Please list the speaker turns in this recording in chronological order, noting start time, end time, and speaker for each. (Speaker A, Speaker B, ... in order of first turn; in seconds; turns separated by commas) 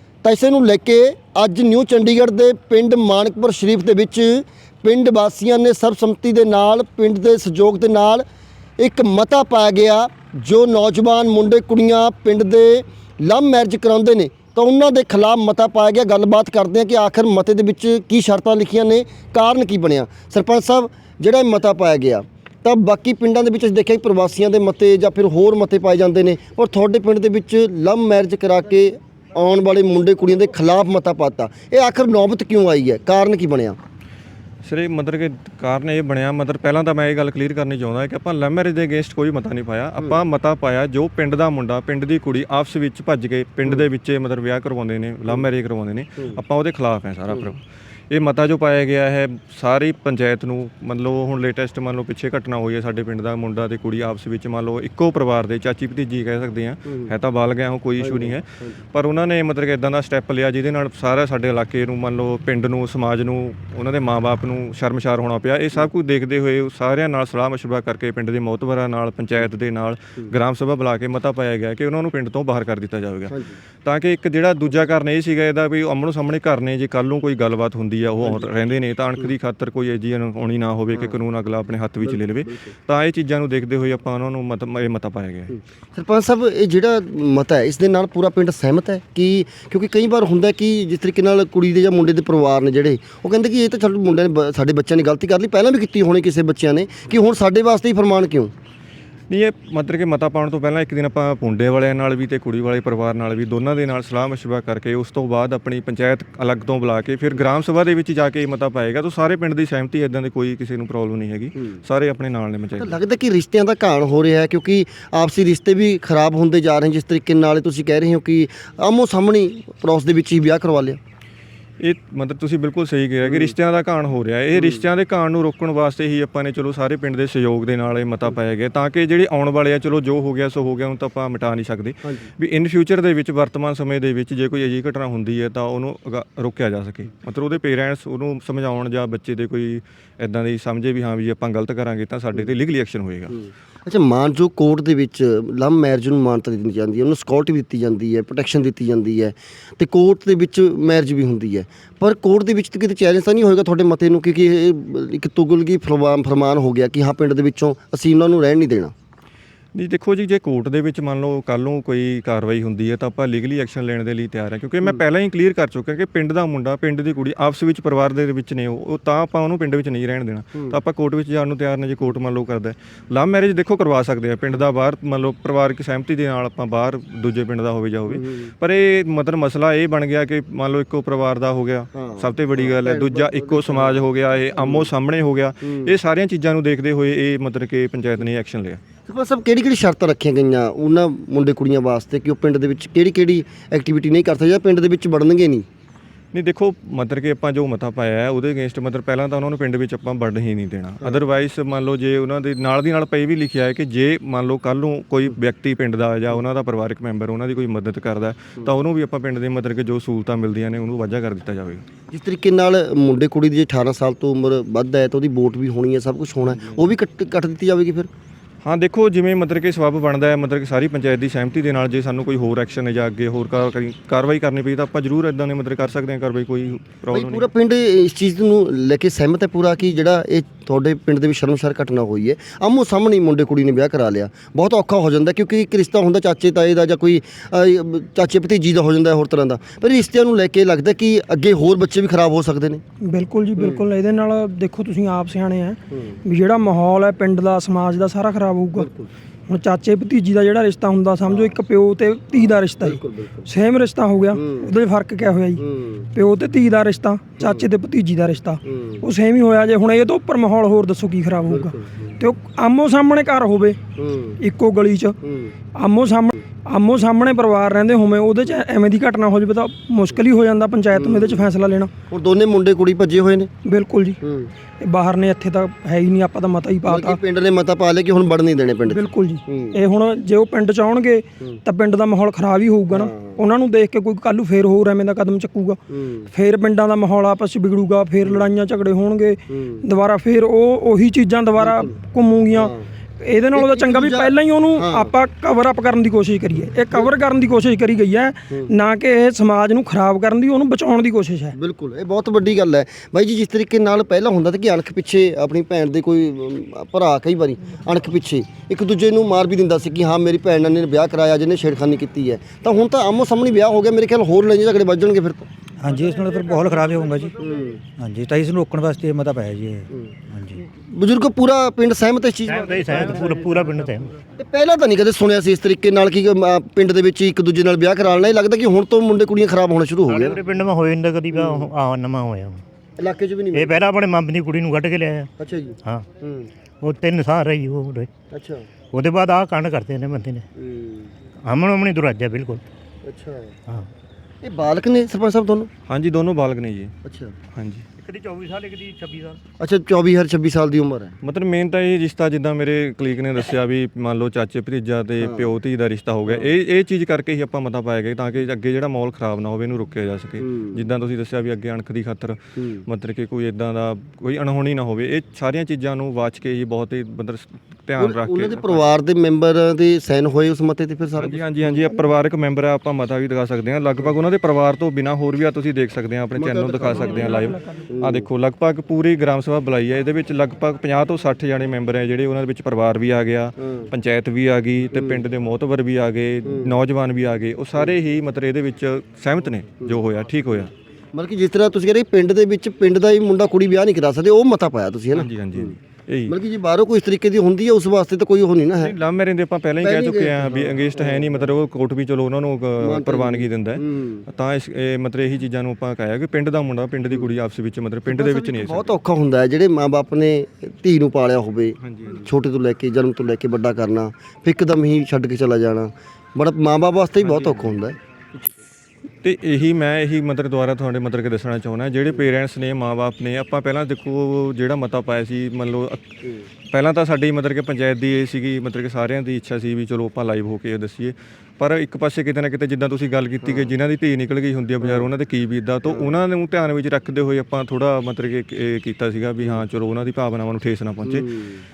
Speaker A: 0.2-8.2, Speaker A: 8.8-33.8, Speaker B: 34.6-73.3, Speaker A: 56.9-57.1, Speaker A: 58.0-58.8, Speaker A: 73.3-73.6, Speaker B: 73.8-85.5, Speaker A: 82.0-82.7, Speaker A: 85.5-98.5, Speaker B: 99.3-113.0, Speaker A: 112.8-121.0, Speaker B: 121.8-143.4, Speaker A: 123.2-123.5, Speaker A: 124.5-124.8, Speaker A: 132.0-132.3, Speaker A: 143.3-158.9, Speaker B: 159.7-188.8, Speaker A: 178.1-178.5, Speaker A: 181.9-184.9, Speaker A: 185.6-185.9, Speaker A: 189.1-195.7, Speaker B: 196.3-211.8, Speaker A: 212.1-218.1, Speaker B: 218.6-227.5, Speaker A: 227.1-242.8, Speaker C: 243.0-248.9, Speaker A: 243.6-243.8, Speaker A: 245.9-246.2, Speaker A: 248.8-249.1, Speaker C: 249.5-255.6, Speaker A: 251.2-251.6, Speaker A: 252.3-253.5, Speaker A: 254.3-254.7, Speaker A: 255.6-256.1, Speaker C: 256.1-263.8, Speaker A: 257.4-257.7, Speaker A: 258.6-259.0, Speaker A: 261.5-262.2, Speaker A: 264.0-264.4, Speaker C: 264.4-265.2, Speaker A: 265.2-265.5, Speaker C: 265.7-271.9, Speaker A: 270.9-271.5, Speaker A: 272.1-273.5, Speaker C: 273.6-274.2, Speaker A: 274.2-274.5, Speaker C: 274.8-277.2, Speaker A: 276.9-279.8, Speaker C: 278.9-285.8, Speaker A: 282.9-283.4, Speaker A: 285.9-286.3, Speaker C: 286.3-301.5, Speaker A: 288.2-288.5, Speaker A: 289.5-289.9, Speaker A: 291.6-291.9, Speaker A: 292.5-292.9, Speaker A: 293.5-295.1, Speaker A: 301.5-315.5, Speaker D: 315.9-317.3, Speaker A: 317.4-317.8, Speaker D: 318.5-319.6, Speaker A: 319.9-323.4, Speaker E: 322.4-324.1, Speaker A: 324.3-330.4, Speaker E: 330.1-332.6, Speaker A: 331.3-331.7, Speaker A: 333.0-333.8, Speaker E: 333.5-335.3, Speaker A: 335.4-336.5, Speaker E: 336.8-338.1, Speaker A: 338.3-338.6, Speaker E: 338.9-340.4, Speaker A: 340.6-341.1, Speaker E: 341.4-342.6, Speaker A: 343.0-343.5, Speaker A: 344.4-345.7, Speaker B: 345.9-346.9, Speaker A: 347.0-347.3, Speaker B: 347.5-347.9, Speaker E: 348.0-349.4, Speaker A: 349.6-351.1, Speaker B: 351.2-368.9, Speaker A: 355.2-355.5, Speaker A: 360.4-360.8, Speaker A: 362.6-362.8, Speaker A: 368.0-371.4, Speaker B: 371.2-390.7, Speaker A: 376.4-378.3, Speaker C: 376.9-377.9, Speaker A: 383.6-383.9, Speaker A: 384.9-385.2, Speaker A: 386.4-386.7, Speaker A: 391.1-395.8, Speaker B: 395.1-396.3, Speaker A: 396.3-398.9, Speaker B: 398.8-408.9, Speaker A: 399.8-401.5, Speaker A: 402.8-404.2, Speaker A: 408.1-417.9, Speaker B: 411.8-412.2, Speaker B: 417.2-417.8, Speaker B: 419.2-426.1, Speaker B: 426.7-441.2, Speaker A: 433.4-433.7, Speaker A: 434.8-435.1, Speaker A: 435.9-436.1, Speaker A: 441.0-441.6